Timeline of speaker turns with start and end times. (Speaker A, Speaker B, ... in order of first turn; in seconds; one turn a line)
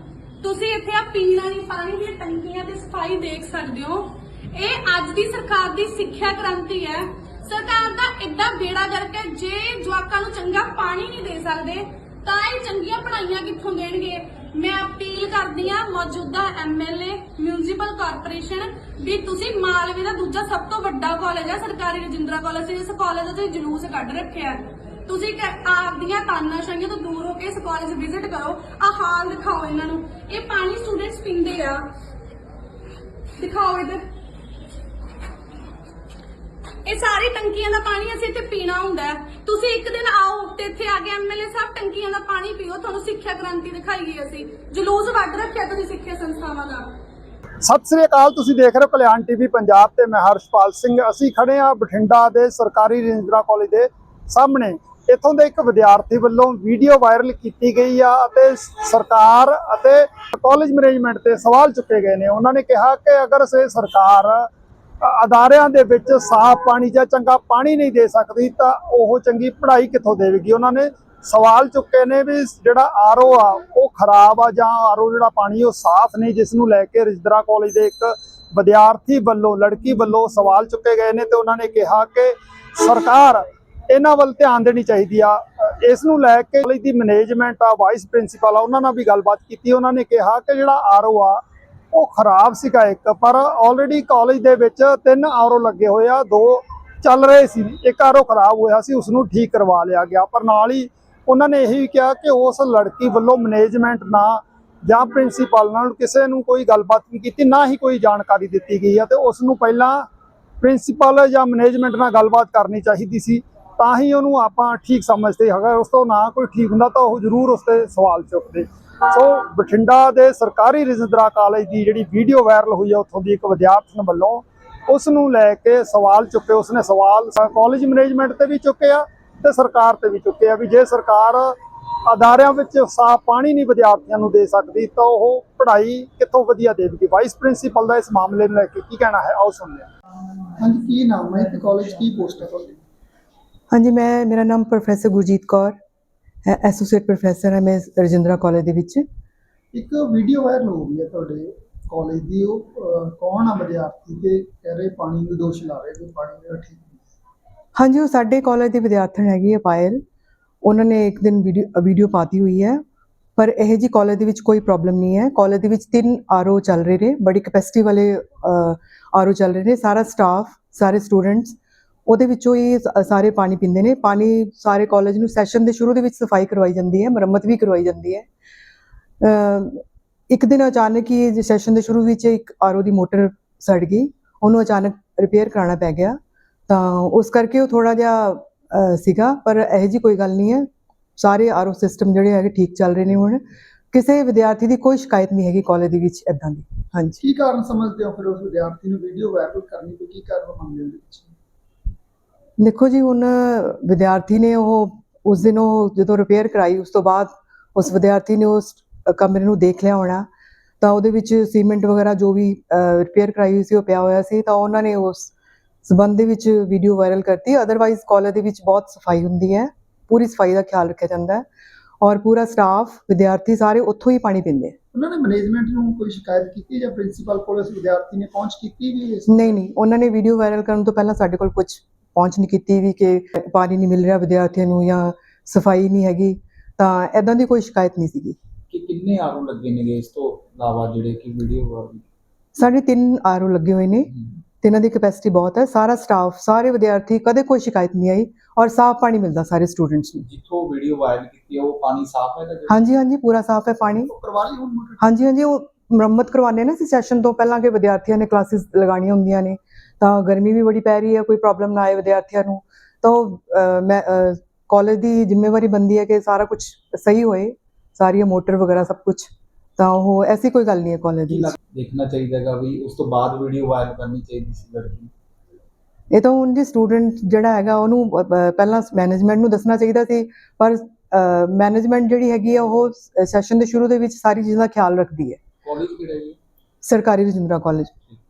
Speaker A: 0.4-31.8
Speaker A: 33.4-34.0
Speaker A: 36.8-46.9
Speaker B: 47.6-64.5
Speaker B: 65.0-91.4
Speaker B: 91.9-110.0
Speaker B: 110.6-131.5
Speaker B: 132.1-139.9
Speaker C: 140.6-142.8
Speaker D: 143.7-145.7
Speaker D: 146.4-149.0
Speaker C: 149.7-157.0
Speaker D: 157.8-160.0
Speaker D: 160.6-162.8
Speaker D: 163.3-178.3
Speaker D: 179.2-193.4
Speaker D: 193.9-197.2
Speaker C: 197.2-201.3
Speaker D: 202.6-210.3
Speaker D: 210.8-215.3
Speaker D: 215.8-221.4
Speaker D: 222.0-224.7
Speaker C: 224.9-229.6
Speaker D: 229.3-238.4
Speaker E: 238.7-242.0
Speaker D: 242.5-250.2
Speaker E: 250.3-252.5
Speaker D: 252.7-254.1
Speaker C: 254.0-255.0
Speaker D: 255.0-271.5
Speaker E: 271.7-275.1
Speaker D: 276.1-285.4
Speaker E: 285.6-286.3
Speaker D: 286.8-287.9